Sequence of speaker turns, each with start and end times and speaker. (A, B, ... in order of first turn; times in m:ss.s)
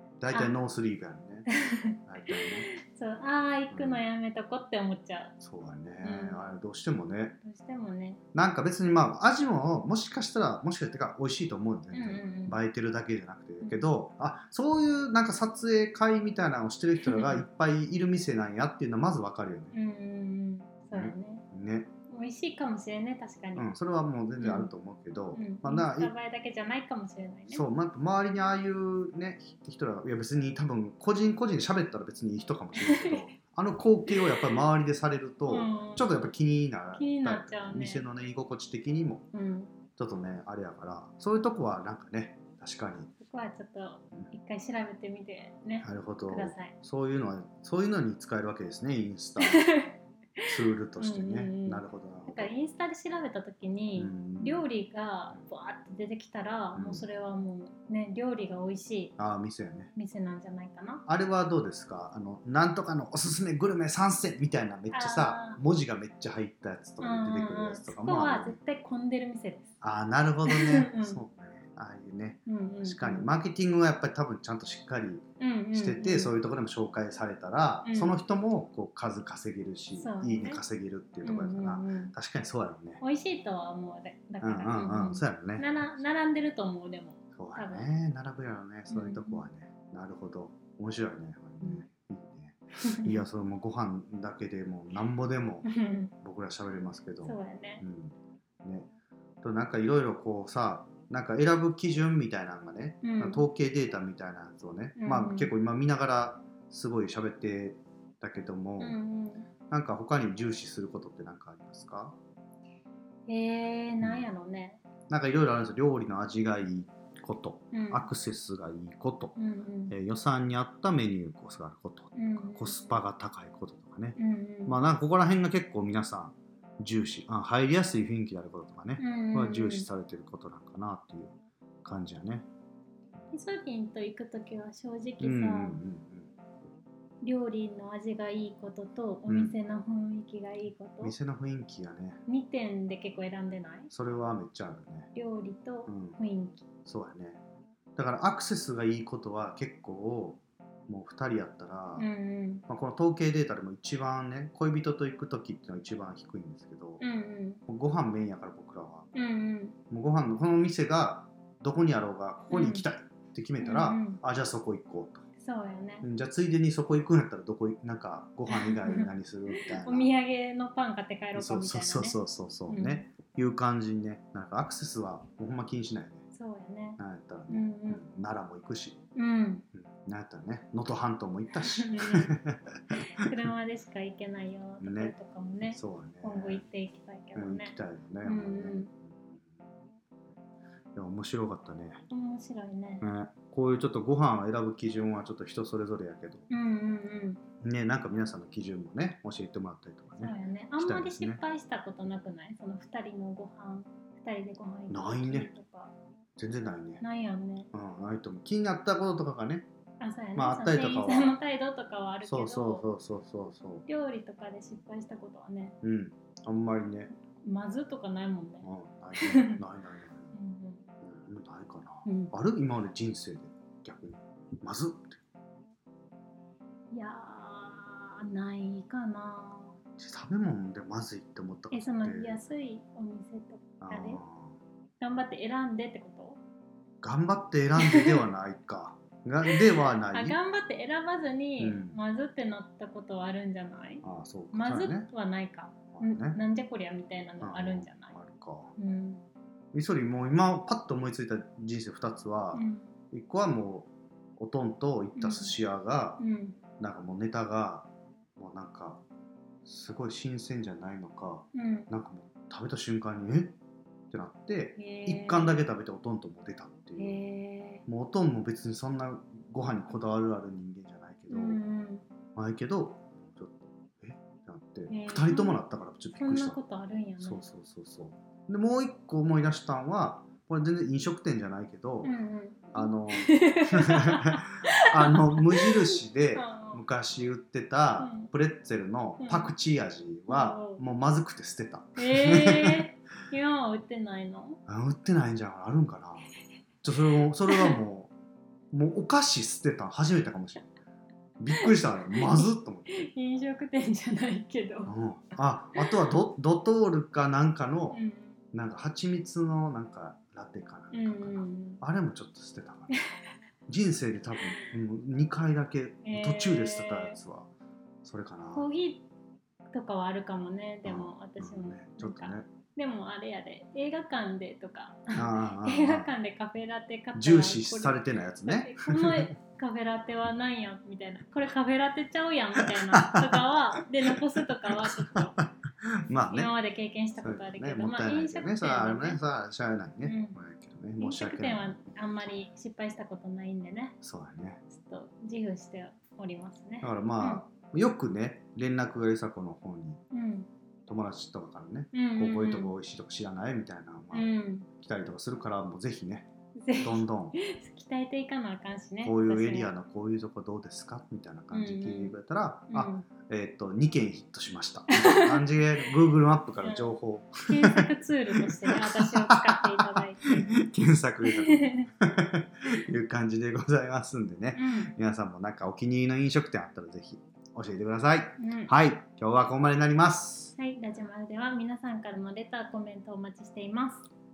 0:00.2-0:01.5 A
0:00.3-0:00.6 B
0:01.5-0:05.3 B
0:02.0-0:02.7 A
0:03.7-0:04.0 A
0:05.4-0:07.4 A
0:06.0-0:06.4 B
0:07.4-0:08.2 B
0:08.3-0:19.7 A
0:11.9-0:12.6 B
0:13.6-0:13.8 B
0:17.0-0:17.4 B
0:19.7-0:21.4 B
0:20.9-0:21.9 A
0:22.1-0:23.7 B
0:23.6-0:26.1 A
0:24.4-0:24.7 B
0:25.3-0:27.6 B
0:27.5-0:39.2 A
0:32.8-0:33.3 B
0:34.1-0:34.5 B
0:35.5-0:36.1 B
0:37.0-0:38.0 B
0:39.3-0:39.7 B
0:40.0-0:43.1 A
0:43.2-0:46.7 B
0:45.8-0:49.6 A
0:49.4-0:59.1 B
0:50.4-0:52.5 A
0:54.0-0:54.6 A
0:56.7-0:57.0 A
0:59.2-0:59.9 A
0:59.9-1:01.0 B
1:01.1-1:08.6 A
1:04.9-1:05.6 B
1:07.0-1:09.7 B
1:09.8-1:23.0 A
1:10.4-1:11.2 B
1:12.4-1:13.3 B
1:15.4-1:16.3 B
1:17.8-1:18.1 B
1:20.0-1:20.6 B
1:21.2-1:22.1 B
1:23.0-1:27.9 B
1:24.4-1:25.8 A
1:27.4-1:35.7 A
1:28.9-1:29.4 B
1:32.8-1:33.2 B
1:35.6-1:36.1 B
1:36.2-1:38.9 A
1:37.2-1:37.8 B
1:39.4-1:49.0 A
1:43.0-1:43.4 B
1:45.0-1:45.5 B
1:48.8-1:49.5 B
1:49.7-1:52.2 A
1:53.3-1:54.8 B
1:54.0-1:54.3 A
1:55.1-1:59.3 A
1:57.7-1:58.1 B
1:59.4-1:59.9 B
1:59.9-2:12.5 A
2:02.1-2:03.0 B
2:04.2-2:04.8 B
2:09.0-2:09.9 B
2:13.3-2:15.8 B
2:15.2-2:16.3 A
2:17.2-2:21.1 B
2:19.3-2:19.5 A
2:21.0-2:22.2 A
2:22.3-2:23.9 B
2:23.9-2:25.1 A
2:25.1-2:26.7 B
2:25.9-2:26.2 A
2:26.8-2:27.4 A
2:28.0-2:32.1 A
2:32.0-2:32.6 B
2:32.7-2:37.0 A
2:37.0-2:37.6 B
2:37.7-2:39.1 A
2:39.1-2:39.8 B
2:39.9-2:45.2 A
2:42.5-2:42.8 B
2:43.6-2:44.2 B
2:45.4-2:46.0 B
2:46.0-2:50.1 A
2:48.5-2:53.0 B
2:51.4-2:56.2 A
2:56.3-2:58.0 B
2:57.0-2:59.0 A
2:59.1-2:59.6 B
2:59.7-3:03.5 A
3:01.6-3:02.4 B
3:02.9-3:08.9 B
3:04.8-3:05.1 A
3:05.6-3:06.6 A
3:07.3-3:09.5 A
3:10.9-3:12.0 A
3:12.1-3:13.1 B
3:13.0-3:16.5 A
3:16.5-3:17.4 B
3:17.6-3:21.4 A
3:20.2-3:25.9 B
3:24.9-3:25.5 A
3:26.4-3:27.0 A
3:27.0-3:27.7 B
3:27.7-3:29.7 A
3:30.0-3:32.9 B
3:30.4-3:31.4 A
3:32.2-3:33.8 A
3:33.9-3:35.8 B
3:35.8-3:37.1 A
3:37.3-3:39.6 B
3:38.6-3:40.3 A
3:40.3-3:40.9 B
3:41.0-3:45.2 A
3:42.0-3:42.3 B
3:46.9-3:49.8 B
3:50.0-3:52.4 A
3:51.7-3:54.2 B
3:53.8-3:54.6 A
3:55.0-3:56.4 B
3:57.0-4:00.4 A
3:57.8-3:58.2 B
3:59.4-4:08.1 B
4:01.6-4:02.0 A
4:04.0-4:05.1 A
4:05.9-4:06.4 A
4:07.4-4:08.7 A
4:08.8-4:09.2 B
4:09.7-4:16.2 A
4:12.5-4:12.9 B
4:15.2-4:15.5 B
4:16.2-4:16.6 B
4:16.8-4:19.0 A
4:19.6-4:23.5 A
4:21.5-4:21.9 B
4:24.1-4:27.2 A
4:24.8-4:25.6 B
4:27.0-4:27.8 B
4:27.8-4:31.6 A
4:31.3-4:32.0 B
4:32.3-4:36.6 A
4:34.9-4:35.6 B
4:36.2-4:37.4 B
4:37.2-4:42.1 A
4:42.0-4:46.8 B
4:42.7-4:52.9 A
4:48.0-4:48.3 B
4:49.2-4:49.5 B
4:50.3-4:50.8 B
4:52.0-4:54.6 B
4:54.7-4:56.3 A
4:56.8-4:58.1 A
4:57.5-4:57.8 B
4:58.7-5:00.7 A
5:01.4-5:03.1 A
5:01.6-5:04.9 B
5:04.9-5:08.0 A
5:07.9-5:08.4 B
5:08.5-5:13.0 A
5:10.9-5:11.8 B
5:13.7-5:17.5 A
5:14.4-5:14.7 B
5:16.0-5:17.2 B
5:18.0-5:18.7 A
5:18.5-5:19.0 B
5:19.7-5:35.4 B
5:20.8-5:22.5 A
5:25.1-5:26.1 A
5:27.2-5:29.3 A
5:32.6-5:36.5 A
5:36.2-5:39.2 B
5:37.2-5:41.8 A
5:40.0-5:40.4 B
5:41.0-5:43.9 B
5:44.0-5:44.6 A
5:44.7-5:47.4 B
5:46.8-5:50.0 A
5:50.1-5:50.5 B
5:50.9-5:57.4 A
5:51.9-5:52.7 B
5:54.1-5:54.7 B
5:56.6-5:59.7 B
5:59.0-6:20.5 A
6:01.5-6:02.2 B
6:02.7-6:03.1 B
6:04.9-6:05.4 B
6:06.6-6:06.9 B
6:07.4-6:10.5 B
6:11.2-6:11.9 B
6:14.5-6:14.9 B
6:18.4-6:18.7 B
6:20.6-6:24.0 B